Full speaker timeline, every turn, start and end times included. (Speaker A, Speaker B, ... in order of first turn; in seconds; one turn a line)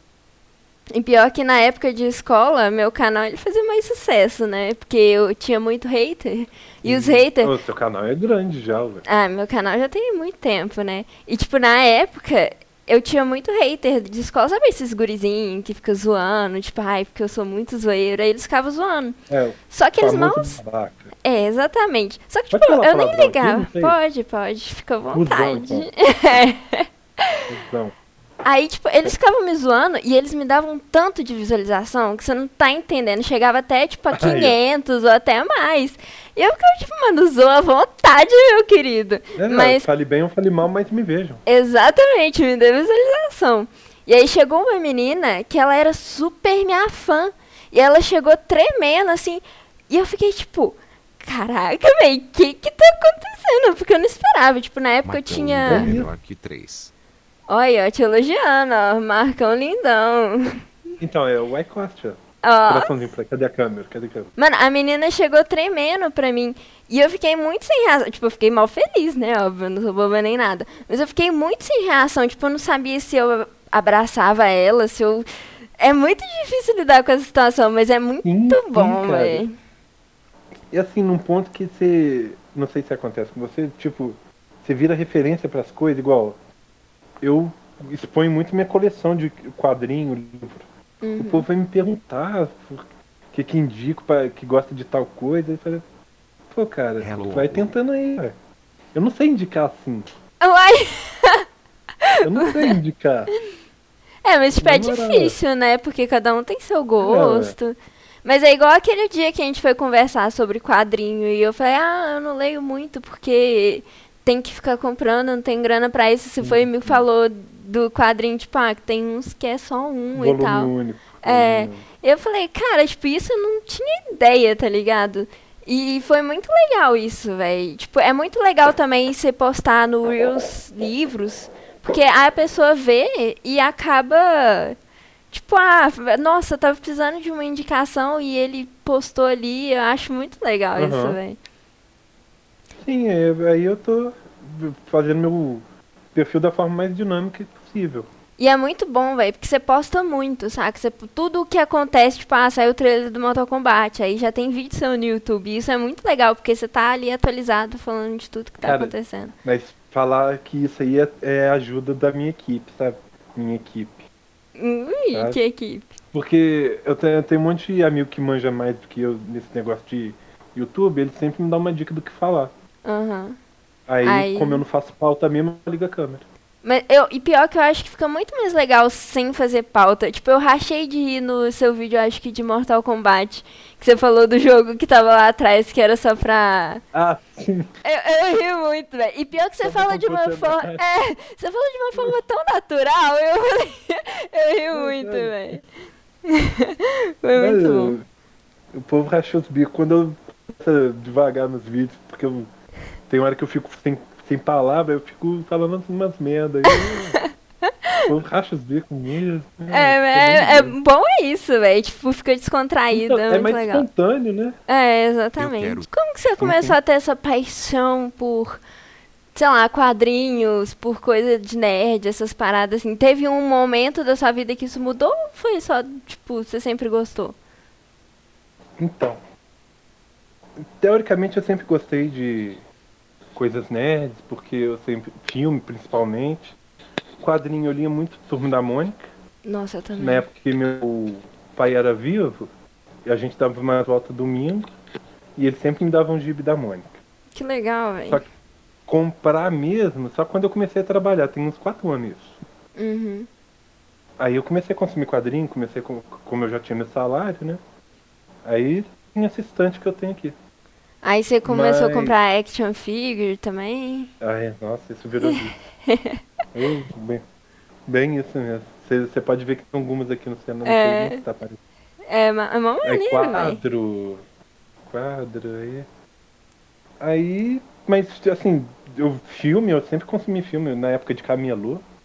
Speaker A: 0.9-7.5
Speaker B: 6.8-9.1
Speaker A: 9.1-19.2
Speaker B: 19.3-21.1
Speaker A: 19.7-20.6
Speaker A: 21.2-27.4
Speaker B: 22.5-24.0
Speaker B: 25.1-25.9
Speaker B: 27.5-27.9
Speaker A: 28.4-39.9
Speaker B: 34.1-34.6
Speaker B: 39.4-41.4
Speaker A: 41.5-56.0
Speaker C: 55.0-56.9
Speaker B: 55.7-56.1
Speaker A: 57.5-60.6
Speaker B: 61.0-64.3
Speaker A: 62.4-62.9
Speaker A: 64.4-75.3
Speaker A: 75.8-79.5
Speaker B: 78.2-79.5
Speaker B: 80.7-86.4
Speaker B: 87.2-90.7
Speaker A: 91.0-91.5
Speaker B: 91.2-95.9
Speaker B: 96.5-98.3
Speaker C: 97.0-97.7
Speaker B: 98.9-100.1
Speaker A: 100.4-101.5
Speaker A: 102.0-102.7
Speaker B: 102.2-103.3
Speaker A: 104.2-134.8
Speaker B: 104.6-105.4
Speaker B: 107.0-107.6
Speaker B: 116.4-117.1
Speaker B: 120.1-121.9
Speaker A: 135.3-141.4
Speaker B: 140.8-141.2
Speaker B: 142.8-148.1
Speaker A: 148.4-159.3
Speaker B: 158.6-164.1
Speaker A: 164.6-165.9
Speaker B: 165.1-165.4
Speaker B: 166.1-172.5
Speaker A: 172.8-173.4
Speaker B: 173.9-176.2
Speaker A: 174.0-174.6
Speaker A: 176.6-186.8
Speaker B: 186.9-187.7
Speaker A: 187.8-195.6
Speaker B: 189.6-190.8
Speaker B: 194.7-195.6
Speaker A: 196.3-198.0
Speaker B: 197.3-198.1
Speaker B: 198.7-202.5
Speaker B: 203.1-207.2
Speaker A: 206.7-208.0
Speaker B: 208.1-210.8
Speaker A: 209.7-213.9
Speaker B: 212.9-214.6
Speaker A: 214.7-218.6
Speaker C: 215.4-215.9
Speaker B: 216.4-216.8
Speaker A: 219.3-227.4
Speaker B: 228.8-229.2
Speaker B: 230.6-232.6
Speaker B: 233.3-236.6
Speaker B: 237.2-239.0
Speaker A: 239.4-240.3
Speaker B: 240.0-242.5
Speaker B: 243.1-244.7
Speaker B: 245.4-247.0
Speaker A: 247.3-248.2
Speaker B: 248.9-252.4
Speaker A: 252.8-253.3
Speaker B: 254.2-257.6
Speaker B: 258.4-260.4
Speaker A: 261.0-264.1
Speaker B: 261.4-262.2
Speaker B: 264.2-265.6
Speaker A: 265.2-266.2
Speaker B: 266.5-267.2
Speaker B: 267.9-271.6
Speaker A: 270.6-271.2
Speaker A: 272.1-273.6
Speaker B: 272.8-274.2
Speaker B: 274.9-275.9
Speaker B: 277.0-281.8